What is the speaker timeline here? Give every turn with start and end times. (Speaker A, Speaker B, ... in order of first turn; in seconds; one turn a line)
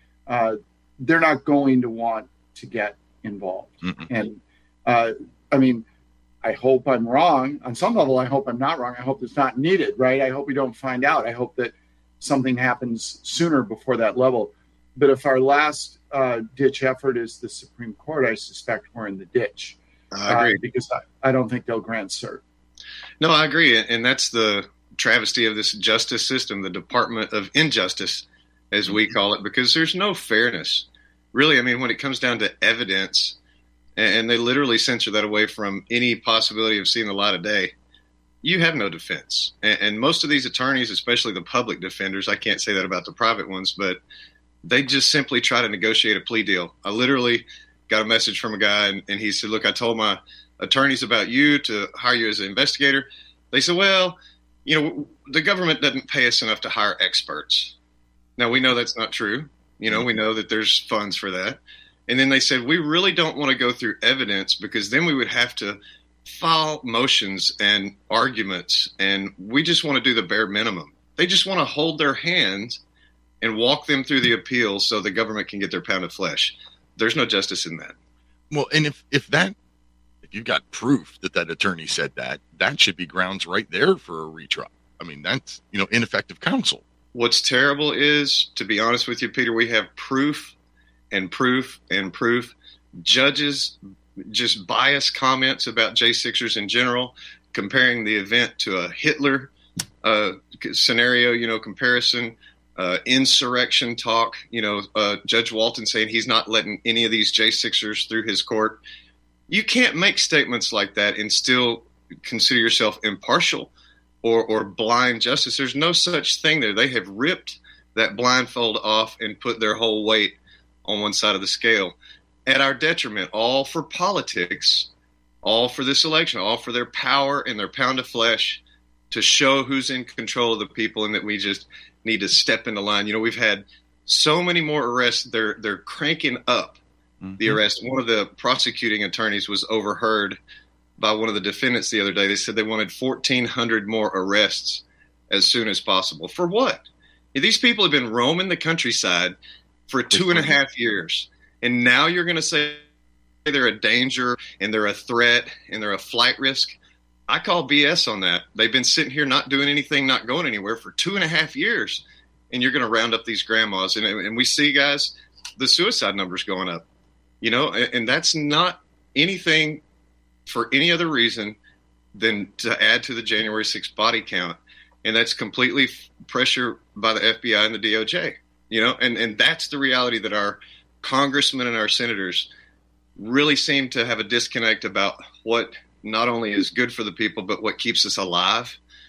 Speaker A: 0.3-5.9
Speaker B: 3.8-4.1
Speaker A: 6.4-22.4
Speaker C: 20.1-20.6
Speaker C: 23.2-33.4
Speaker C: 34.0-37.7
Speaker C: 38.4-44.0
Speaker C: 44.6-57.8
Speaker C: 58.4-72.8
Speaker C: 73.4-78.0
Speaker B: 78.5-79.6
Speaker B: 80.2-86.8
Speaker C: 87.1-90.5
Speaker C: 91.1-99.5
Speaker C: 100.0-108.8
Speaker C: 109.5-113.7
Speaker C: 114.2-122.0
Speaker C: 122.5-124.9
Speaker C: 125.4-136.8
Speaker B: 137.2-137.6
Speaker C: 137.4-140.4
Speaker C: 141.0-149.4
Speaker C: 149.9-152.8
Speaker B: 150.1-150.6
Speaker C: 153.4-156.8
Speaker C: 157.3-166.8
Speaker C: 167.4-169.8
Speaker C: 170.5-171.6
Speaker C: 172.1-182.5
Speaker C: 183.2-188.8